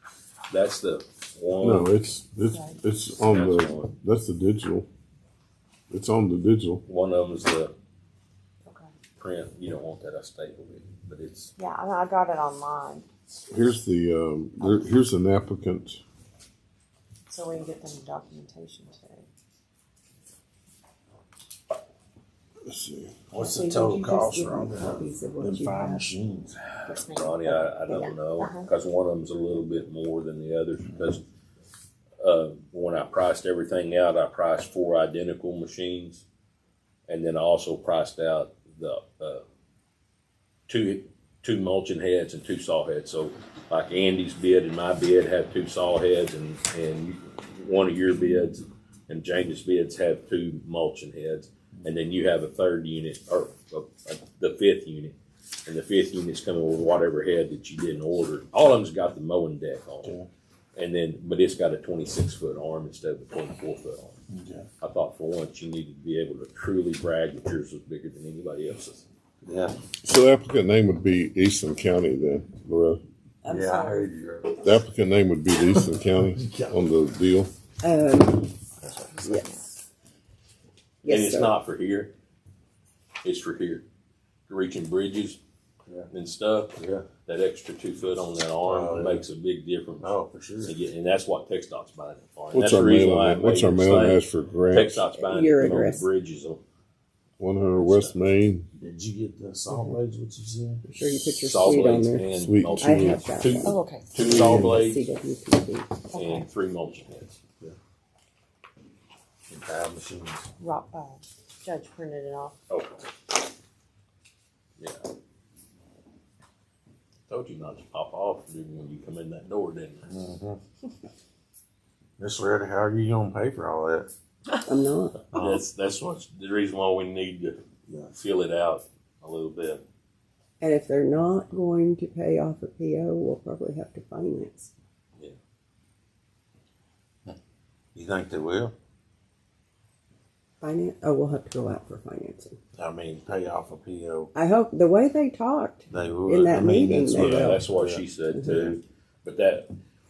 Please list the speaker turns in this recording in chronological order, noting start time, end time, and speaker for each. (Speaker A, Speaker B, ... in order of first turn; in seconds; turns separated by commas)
Speaker A: 0.5-1.9, Speaker B: 1.6-4.9, Speaker C: 2.5-2.8, Speaker A: 3.1-3.9, Speaker B: 5.9-6.8, Speaker A: 6.8-7.7, Speaker C: 8.6-8.9, Speaker A: 9.2-11.5, Speaker C: 11.6-13.1, Speaker B: 13.5-16.0, Speaker C: 17.3-19.3, Speaker B: 22.6-23.2, Speaker D: 23.3-27.0, Speaker E: 23.4-26.2, Speaker C: 26.9-27.4, Speaker A: 27.1-31.2, Speaker A: 32.2-36.2, Speaker A: 37.1-39.4, Speaker A: 40.7-60.2, Speaker D: 60.0-60.3, Speaker A: 60.8-64.2, Speaker D: 64.3-64.7, Speaker A: 64.8-69.0, Speaker D: 69.4-69.8, Speaker B: 70.0-73.0, Speaker E: 73.4-74.1, Speaker D: 73.5-74.7, Speaker B: 74.6-77.5, Speaker D: 75.6-76.9, Speaker E: 77.8-78.5, Speaker D: 78.8-79.3, Speaker E: 79.2-79.6, Speaker E: 81.0-81.6, Speaker A: 81.0-82.1, Speaker A: 83.2-83.8, Speaker A: 84.5-85.4, Speaker A: 86.1-96.6, Speaker D: 86.8-87.1, Speaker D: 88.6-89.2, Speaker D: 90.0-90.8, Speaker B: 92.5-95.0, Speaker E: 95.2-96.1, Speaker B: 97.4-98.7, Speaker A: 97.8-98.2, Speaker D: 98.8-100.8, Speaker E: 99.7-100.0, Speaker E: 100.8-106.0, Speaker A: 101.0-105.1, Speaker B: 102.3-103.4, Speaker C: 103.6-104.1, Speaker B: 104.3-104.7, Speaker C: 106.1-106.4, Speaker A: 106.1-107.4, Speaker D: 109.5-110.5, Speaker C: 110.6-112.5, Speaker A: 112.7-113.0, Speaker A: 114.8-115.0, Speaker A: 117.3-120.1, Speaker D: 120.0-120.6, Speaker D: 122.2-124.1, Speaker E: 124.6-125.2, Speaker D: 125.3-125.6, Speaker A: 125.3-127.6, Speaker D: 127.9-128.1, Speaker A: 128.1-129.8, Speaker E: 130.6-134.7, Speaker D: 137.9-138.7, Speaker E: 140.6-142.6, Speaker D: 142.8-144.3, Speaker E: 144.3-147.6, Speaker D: 145.9-148.7, Speaker A: 147.1-149.7